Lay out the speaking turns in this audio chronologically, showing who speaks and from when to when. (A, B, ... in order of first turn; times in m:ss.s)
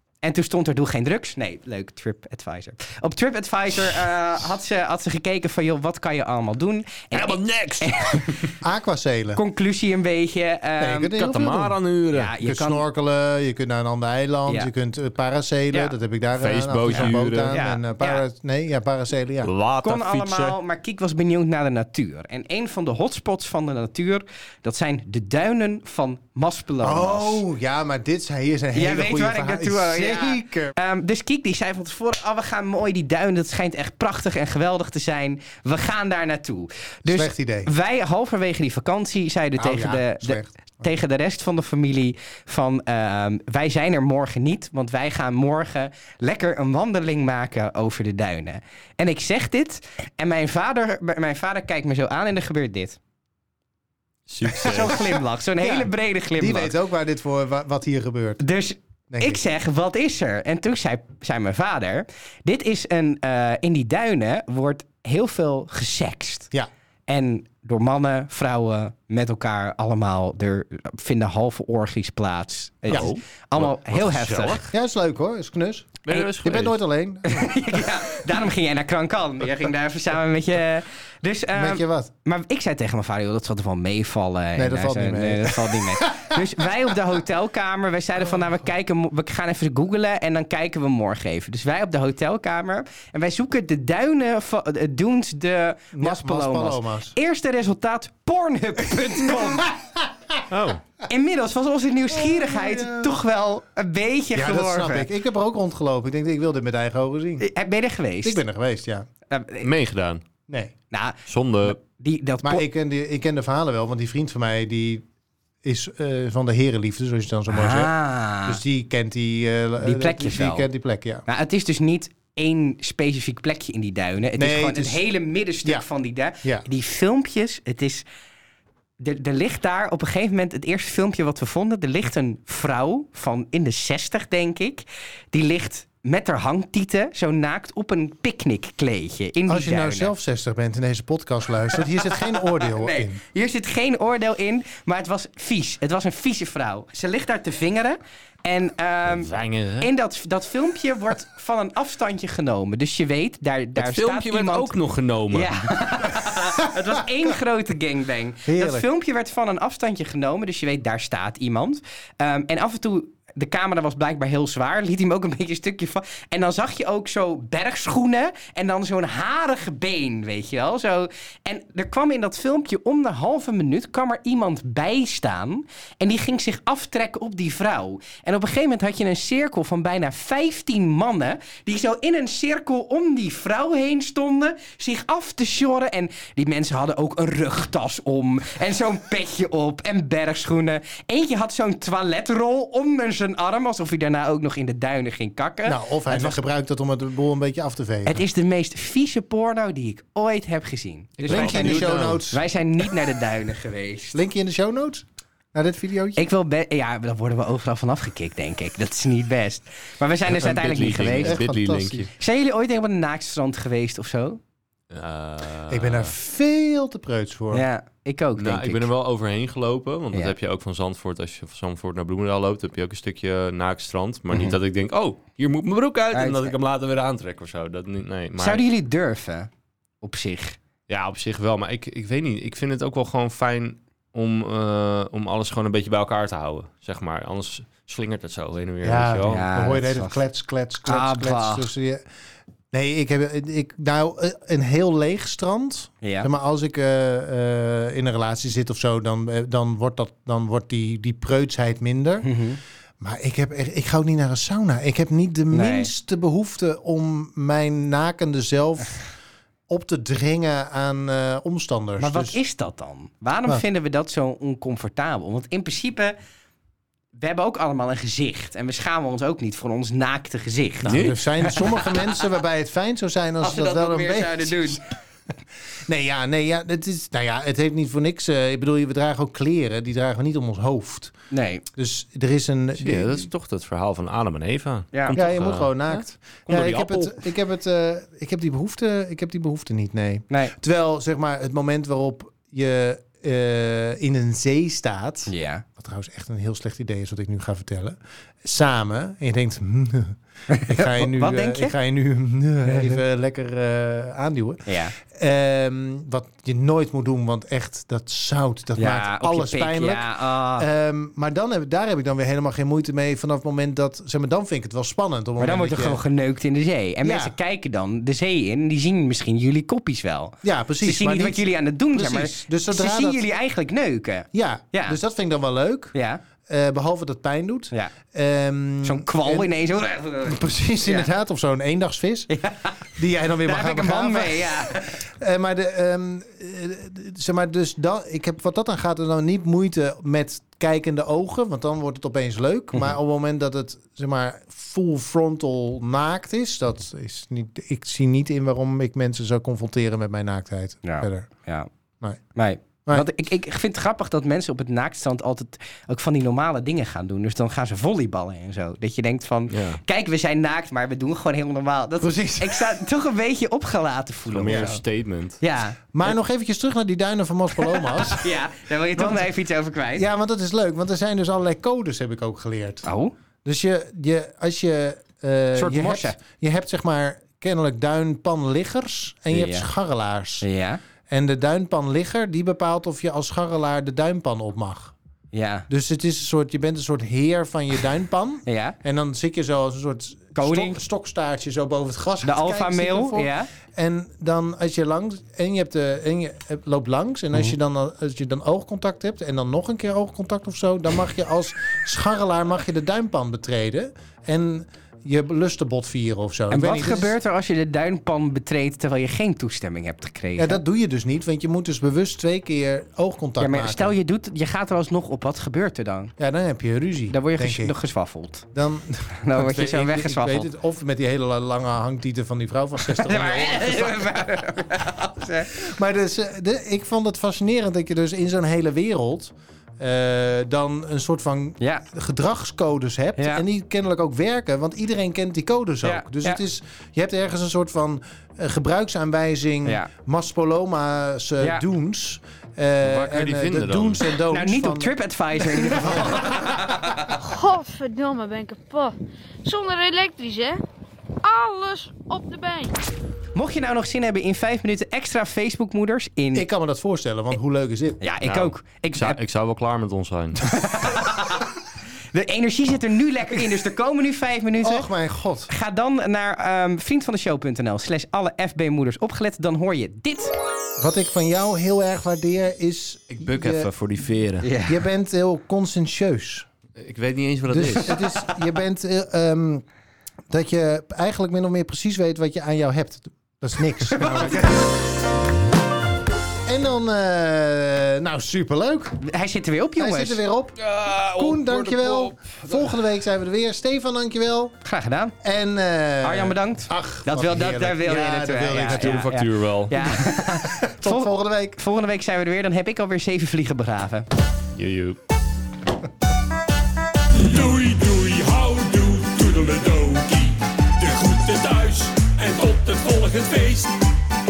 0:00.2-0:08.5 A
0:07.1-0:08.5 B
0:08.6-0:09.4 C
0:09.4-0:11.2 A
0:10.8-0:11.8 C
0:11.2-0:12.3 B
0:12.1-0:12.8 A
0:12.4-0:19.5 C
0:16.4-0:17.6 B
0:16.9-0:18.2 A
0:19.4-0:20.6 B
0:19.8-0:27.4 A
0:26.8-0:30.7 C
0:28.7-0:53.0 A
0:37.0-0:37.7 C
0:39.6-0:40.7 C
0:54.3-0:55.2 B
0:54.5-0:56.7 A
0:54.6-0:55.1 C
0:55.6-0:58.4 C
0:58.4-1:06.5 A
0:59.1-0:59.4 C
1:07.1-1:14.7 A
1:12.9-1:14.7 B
1:14.7-1:17.6 C
1:16.0-1:16.8 B
1:17.2-1:39.7 A
1:21.5-1:22.1 C
1:24.6-1:26.9 C
1:35.9-1:37.2 C
1:39.2-1:40.4 C
1:40.5-1:40.8 B
1:41.1-1:45.1 A
1:42.1-1:43.1 C
1:44.3-1:47.4 C
1:47.4-1:48.4 A
1:48.2-1:49.1 C
1:49.3-1:49.7 A
1:49.6-1:50.2 B
1:50.5-1:50.7 C
1:50.9-1:52.6 A
1:51.2-1:51.8 B
1:52.4-1:55.0 C
1:55.6-2:01.2 C
1:57.5-1:58.6 A
1:59.8-2:00.7 A
2:01.2-2:08.0 A
2:04.4-2:05.0 C
2:09.0-2:20.1 A
2:19.5-2:23.2 C
2:22.0-2:34.7 A
2:29.0-2:29.9 B
2:33.8-2:35.7 B
2:35.3-3:16.4 A
2:38.4-2:38.8 C
3:15.6-3:18.2 C
3:18.0-3:24.2 A
3:21.2-3:22.2 B
3:21.3-3:22.4 C
3:24.1-3:26.2 C
3:26.2-3:31.4 A
3:30.2-3:32.1 B
3:31.1-3:32.1 C
3:32.2-3:34.4 A
3:34.9-3:36.1 B
3:35.7-3:37.6 C
3:37.5-3:38.9 A
3:38.4-3:48.6 B
3:44.3-3:44.6 A
3:46.1-3:46.5 A
3:48.4-3:49.5 A
3:50.0-3:50.6 A
3:50.9-3:59.4 B
3:58.8-4:02.0 C
3:59.3-4:00.2 A
4:00.8-4:01.7 A
4:02.7-4:12.3 C
4:06.0-4:06.3 A
4:12.2-4:12.6 A
4:13.0-4:19.0 C
4:15.5-4:15.9 A
4:19.7-4:22.4 C
4:22.0-4:26.1 A
4:27.1-4:32.2 A
4:30.8-4:31.2 B
4:30.8-4:34.8 C
4:33.4-4:34.8 A
4:35.8-4:41.1 C
4:41.3-4:41.6 A
4:41.7-4:43.3 C
4:42.8-4:47.2 B
4:45.1-5:16.0 C
4:50.3-4:50.5 A
4:55.3-4:55.6 A
5:00.5-5:01.8 A
5:02.7-5:03.0 A
5:04.6-5:04.9 A
5:08.8-5:10.7 A
5:15.4-5:25.0 A
5:17.0-5:17.3 C
5:20.4-5:23.2 C
5:24.3-5:25.9 C
5:25.9-5:26.2 A
5:26.4-5:29.5 C
5:28.8-5:31.1 A
5:30.2-5:32.3 C
5:32.3-5:32.8 A
5:33.0-5:51.3 C
5:33.4-5:35.1 A
5:50.8-5:51.7 A
5:52.3-6:04.8 A
5:59.5-5:59.8 B
6:02.0-6:02.8 C
6:04.3-6:05.4 B
6:05.4-6:06.1 A
6:05.9-6:08.3 C
6:07.6-6:10.0 A
6:09.0-6:09.3 C
6:09.9-6:12.9 C
6:12.8-6:13.1 A
6:13.4-6:20.4 C
6:15.5-6:16.2 A
6:19.3-6:19.7 A
6:20.4-6:20.8 A
6:21.1-6:24.9 C
6:25.3-6:25.7 A
6:25.7-6:47.1 C
6:28.4-6:28.8 A
6:30.3-6:30.8 A
6:32.2-6:33.5 A
6:46.5-6:50.6 A
6:50.4-6:53.9 C
6:53.4-6:56.1 A
6:56.2-6:57.7 C
6:57.1-6:58.4 A
6:58.5-7:04.4 C
6:59.2-7:00.5 A
7:02.8-7:05.6 A
7:05.5-7:26.8 C
7:11.6-7:11.8 A
7:13.2-7:13.4 A
7:15.8-7:16.4 A
7:22.8-7:24.1 B
7:24.3-7:27.1 A
7:27.1-7:30.6 D
7:31.2-7:32.8 D
7:33.3-7:36.4 A
7:36.3-7:38.0 C
7:38.0-7:39.2 A
7:38.2-7:40.4 B
7:40.5-7:41.5 A
7:42.1-7:44.9 A
7:44.6-7:45.5 C
7:45.5-7:50.3 A
7:50.8-7:53.7 C
7:53.1-7:54.5 B
7:54.4-7:54.8 A
7:54.6-7:56.5 C
7:56.8-7:58.0 B
7:57.5-7:59.6 C
8:00.3-8:04.8 C
8:06.4-8:09.0 C
8:09.0-8:10.2 A
8:09.8-8:10.6 C
8:10.6-8:12.7 B
8:11.2-8:14.5 C
8:14.6-8:15.2 A
8:15.2-8:19.0 C
8:16.0-8:24.1 A
8:18.6-8:20.0 B
8:20.1-8:21.6 C
8:24.5-8:25.0 B
8:27.1-8:33.8 E